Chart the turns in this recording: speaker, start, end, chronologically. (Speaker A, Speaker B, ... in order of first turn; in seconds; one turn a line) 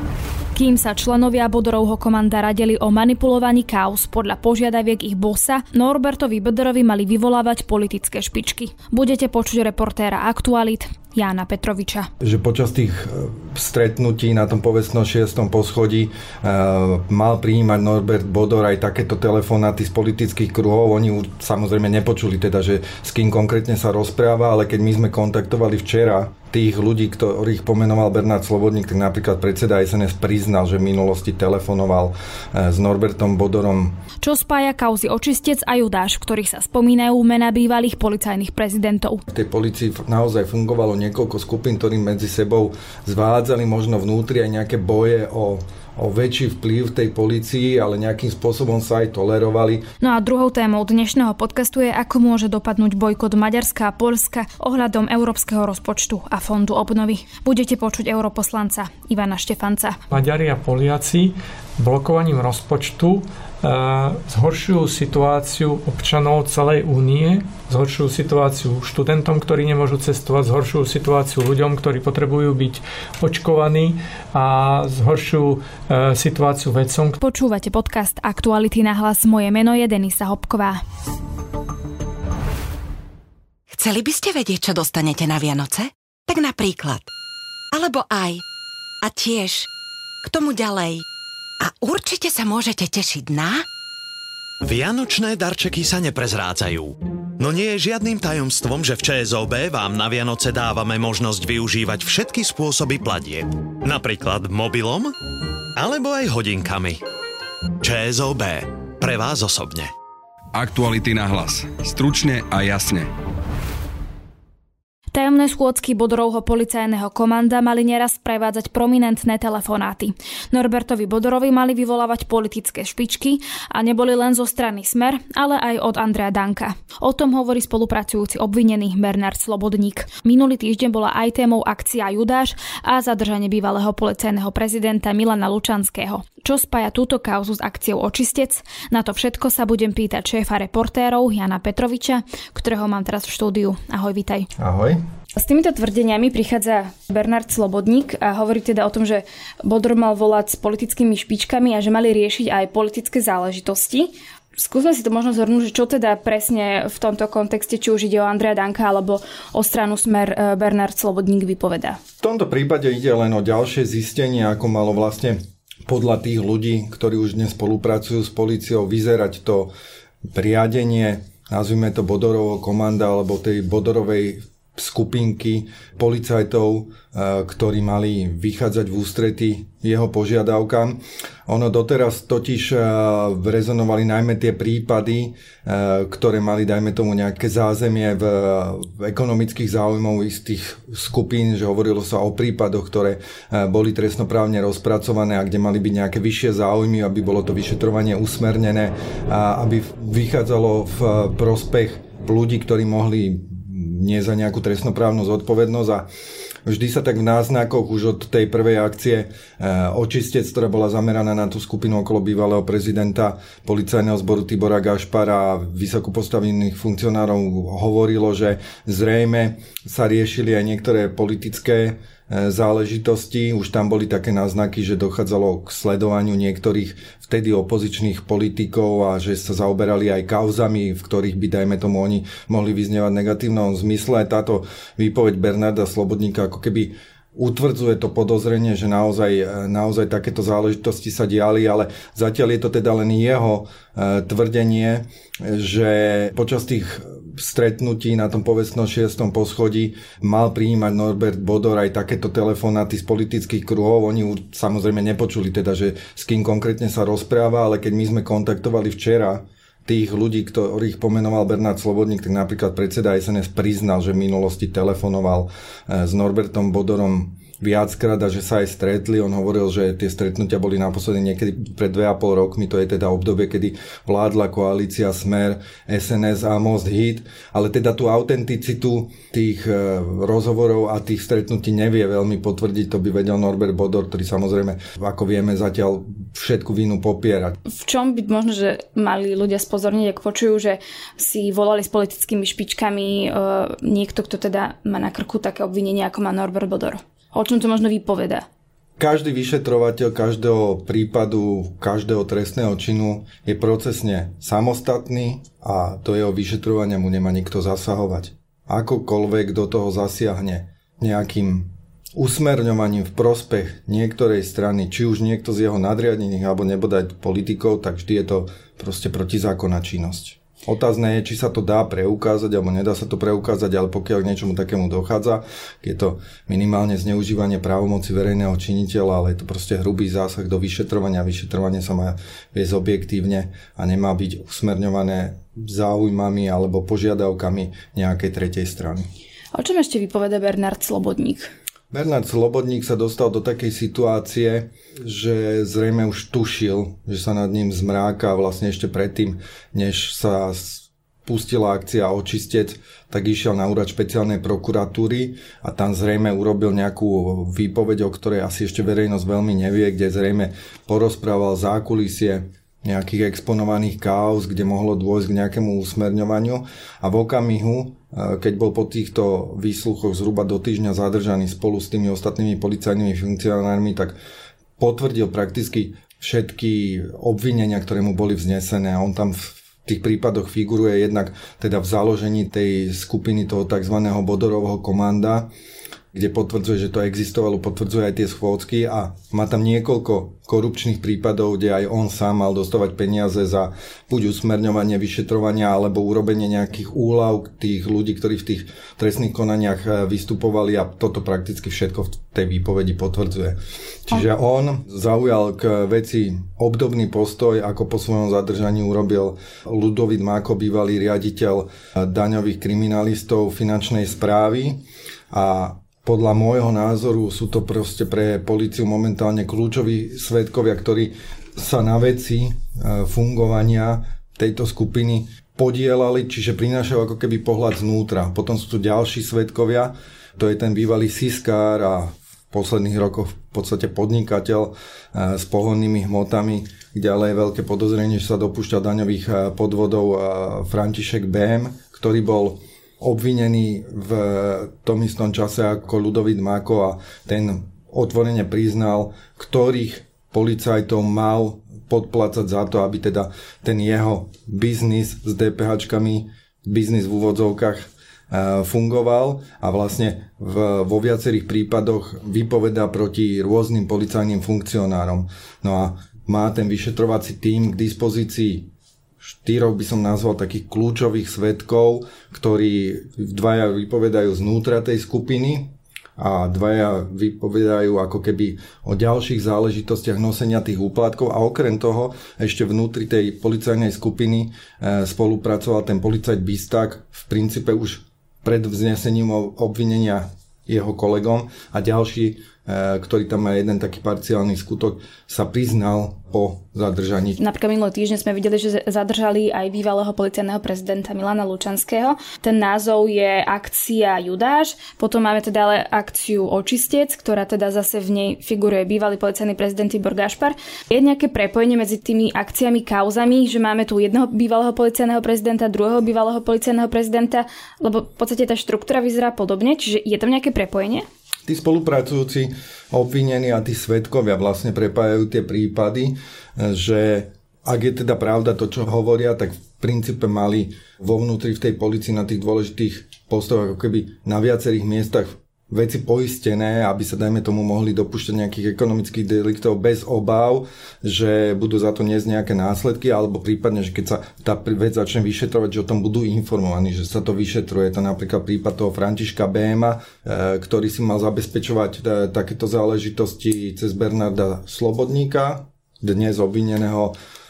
Speaker A: 0.5-12.1
Speaker B: 12.2-34.0
Speaker A: 34.2-39.2
Speaker B: 39.3-49.9
Speaker A: 50.0-60.0
Speaker C: 60.1-77.2
Speaker A: 77.2-80.8
Speaker D: 83.7-87.1
Speaker D: 87.7-88.4
Speaker D: 89.0-89.7
Speaker D: 90.2-91.0
Speaker D: 91.6-93.7
Speaker E: 94.6-105.1
Speaker E: 105.7-107.0
Speaker E: 107.8-109.9
Speaker F: 110.5-113.1
Speaker A: 115.1-144.5
Speaker B: 144.6-145.0
Speaker A: 145.3-162.0
Speaker B: 162.2-169.7
Speaker B: 170.3-206.1
Speaker B: 206.7-287.6
Speaker A: 287.6-298.4
Speaker B: 299.0-339.1
Speaker A: 339.5-341.5
Speaker B: 341.9-374.1
Speaker B: 374.8-385.5
Speaker B: 386.1-468.7
Speaker B: 469.2-497.4
Speaker A: 497.4-521.0
Speaker B: 521.5-557.1